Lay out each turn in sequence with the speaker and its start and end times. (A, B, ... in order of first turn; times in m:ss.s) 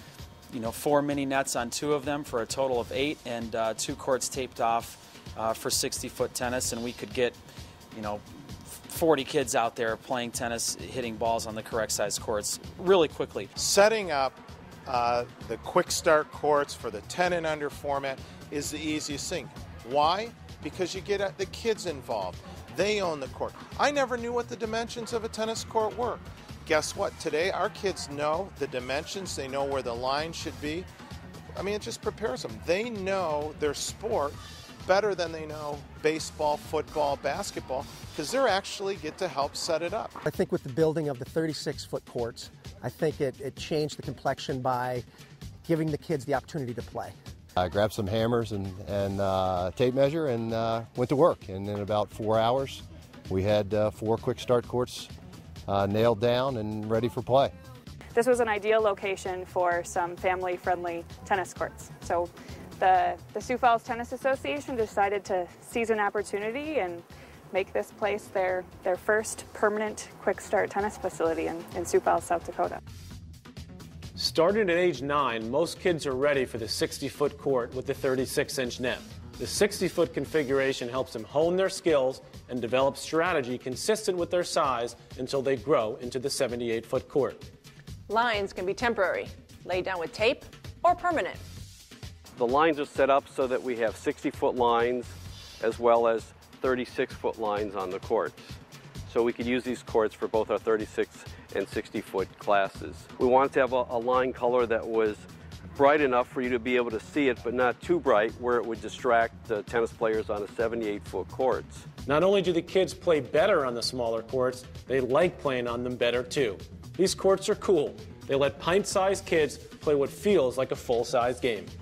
0:00.5-0:07.4 A
0:07.9-0:13.5 A
0:13.6-0:30.9 B
0:31.5-0:40.1 B
0:40.2-0:45.0 C
0:45.6-0:47.1 C
0:47.6-0:55.1 D
0:55.7-0:57.5 D
0:58.1-1:12.8 E
1:14.2-1:27.4 F
1:28.1-1:31.4 G
1:32.3-1:38.4 H
1:39.1-1:51.8 H
1:52.0-2:01.7 F